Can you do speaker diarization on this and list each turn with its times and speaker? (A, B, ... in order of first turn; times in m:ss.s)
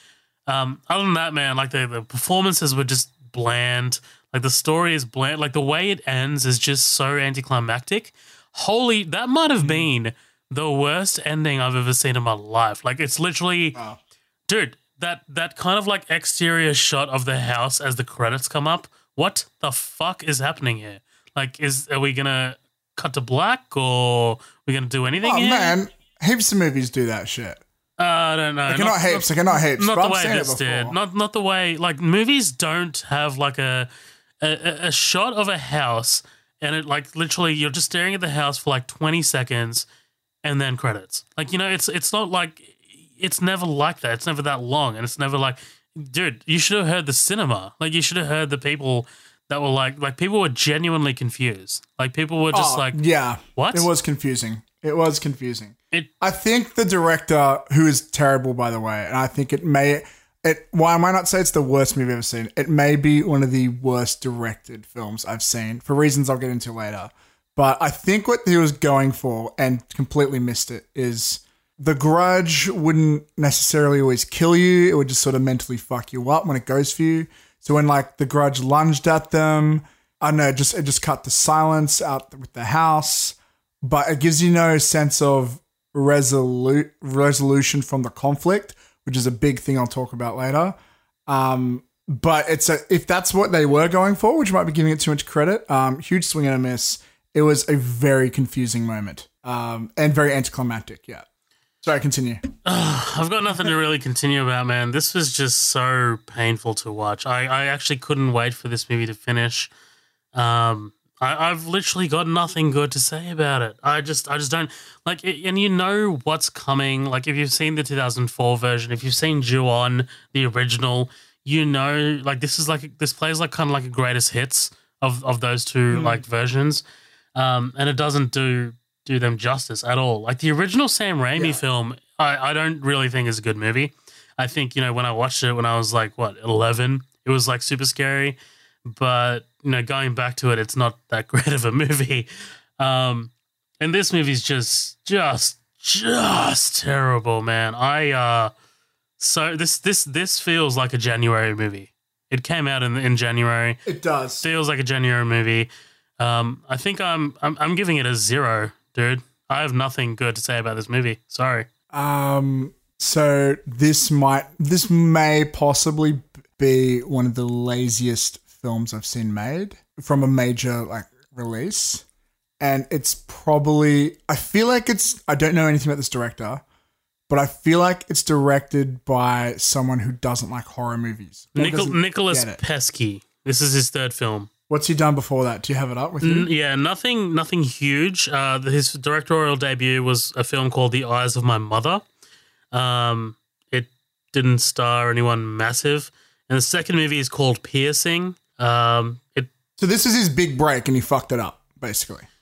0:00.5-0:13.8 A
0:09.6-0:09.9 B
0:14.5-0:25.8 A
0:25.2-0:27.6 B
0:28.0-0:33.9 A
0:28.7-0:31.0 B
0:34.4-0:39.9 A
0:40.4-0:53.0 A
0:52.5-1:30.8 B
0:53.6-0:53.9 A
1:31.3-1:41.3 B
1:41.8-1:42.4 B
1:42.6-1:49.7 A
1:50.4-2:06.8 A
2:05.9-2:06.2 B
2:07.4-2:28.5 A
2:11.4-2:11.6 B
2:29.2-2:33.8 A
2:33.9-2:34.5 B
2:34.4-2:41.7 A
2:41.9-2:52.0 B
2:52.6-2:56.6 B
2:57.3-3:02.6 B
3:01.6-3:04.5 A
3:04.7-3:06.5 B
3:06.2-3:12.0 A
3:12.7-3:19.5 A
3:19.8-3:22.3 B